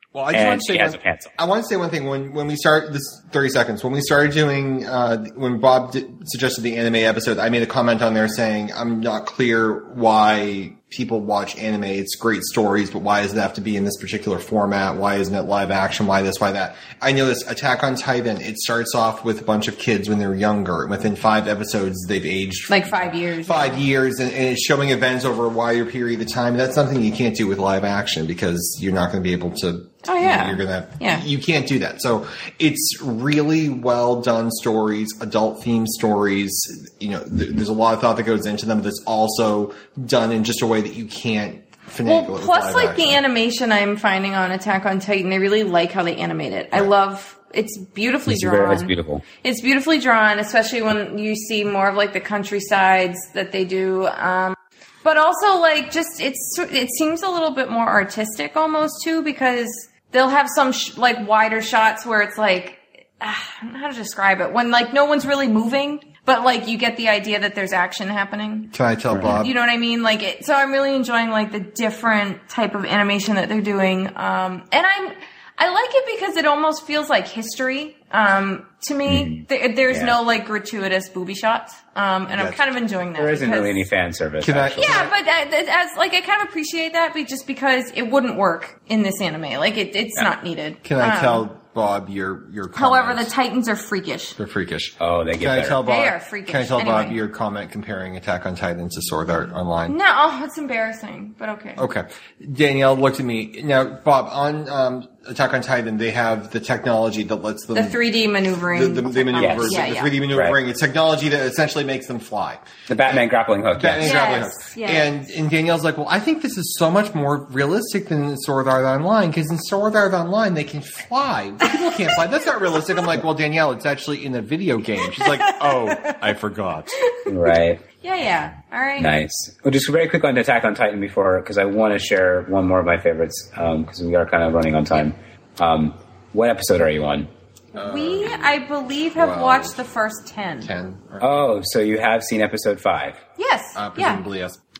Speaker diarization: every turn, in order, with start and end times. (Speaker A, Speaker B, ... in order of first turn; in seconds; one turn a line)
Speaker A: 0.1-43.2
Speaker B: 0.3-1.3
Speaker C: 22.7-23.9
Speaker C: 30.0-31.2
Speaker C: 42.0-83.8
Speaker B: 48.3-49.2
Speaker A: 68.7-69.5
Speaker B: 69.1-69.4
Speaker B: 79.0-80.2
Speaker A: 82.3-82.6
Speaker B: 83.2-85.1
Speaker A: 84.4-85.1
Speaker C: 84.8-91.5
Speaker A: 90.8-93.3
Speaker C: 92.7-94.4
Speaker A: 94.4-100.0
Speaker B: 95.0-95.8
Speaker C: 95.8-97.2
Speaker C: 99.9-101.9
Speaker A: 101.8-108.0
Speaker C: 107.7-110.2
Speaker A: 108.7-127.0
Speaker B: 109.3-110.6
Speaker B: 112.9-114.2
Speaker C: 114.0-115.2
Speaker C: 125.2-126.1
Speaker C: 127.0-127.3
Speaker B: 127.2-127.8
Speaker C: 128.0-129.1
Speaker B: 129.0-137.3
Speaker A: 137.7-138.4
Speaker C: 137.8-140.7
Speaker A: 139.1-139.8
Speaker A: 140.6-141.4
Speaker B: 141.2-143.2
Speaker C: 143.4-144.2
Speaker A: 143.8-144.6